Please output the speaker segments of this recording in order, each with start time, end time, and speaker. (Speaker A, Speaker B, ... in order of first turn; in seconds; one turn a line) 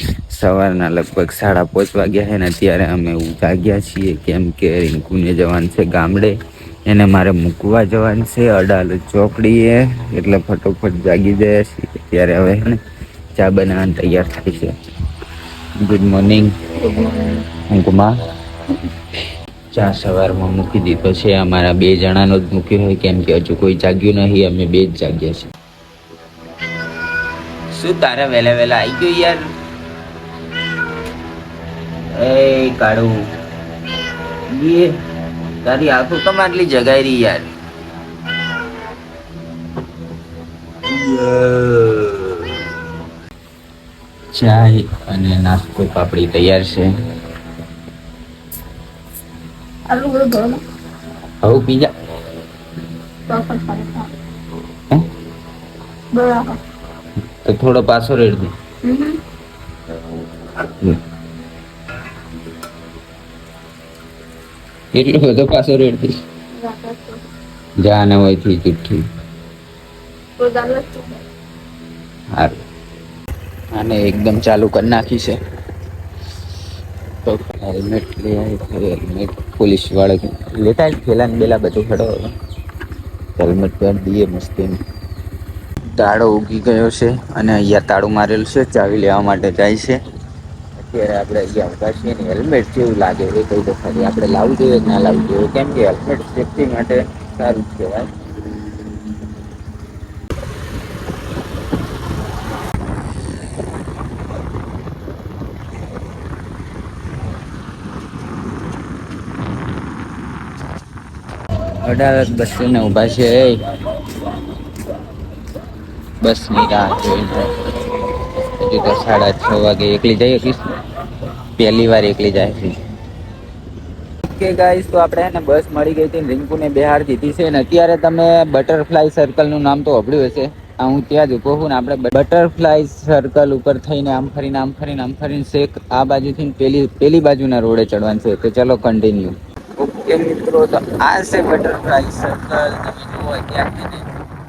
Speaker A: 0.3-12.8
Speaker A: 13.3-14.8
Speaker A: 15.8-18.2
Speaker A: 19.7-25.5
Speaker A: 27.7-29.4
Speaker A: 32.1-33.3
Speaker A: 34.5-35.0
Speaker A: 35.6-37.5
Speaker A: 40.8-42.6
Speaker A: 44.3-46.9
Speaker B: 49.9-50.6
Speaker A: 51.4-51.9
Speaker B: 53.3-54.1
Speaker B: 56.1-56.6
Speaker A: 57.4-59.2
Speaker A: 60.5-61.0
Speaker A: 64.9-67.2
Speaker B: 66.6-67.2
Speaker A: 67.8-69.1
Speaker B: 70.4-71.2
Speaker A: 70.5-71.0
Speaker A: 72.3-72.6
Speaker A: 73.7-75.4
Speaker A: 77.2-82.3
Speaker A: 83.3-84.8
Speaker A: 85.9-90.0
Speaker A: 90.8-98.1
Speaker A: 111.8-113.6
Speaker A: 116.2-120.7
Speaker A: 121.5-122.8
Speaker A: 124.3-144.1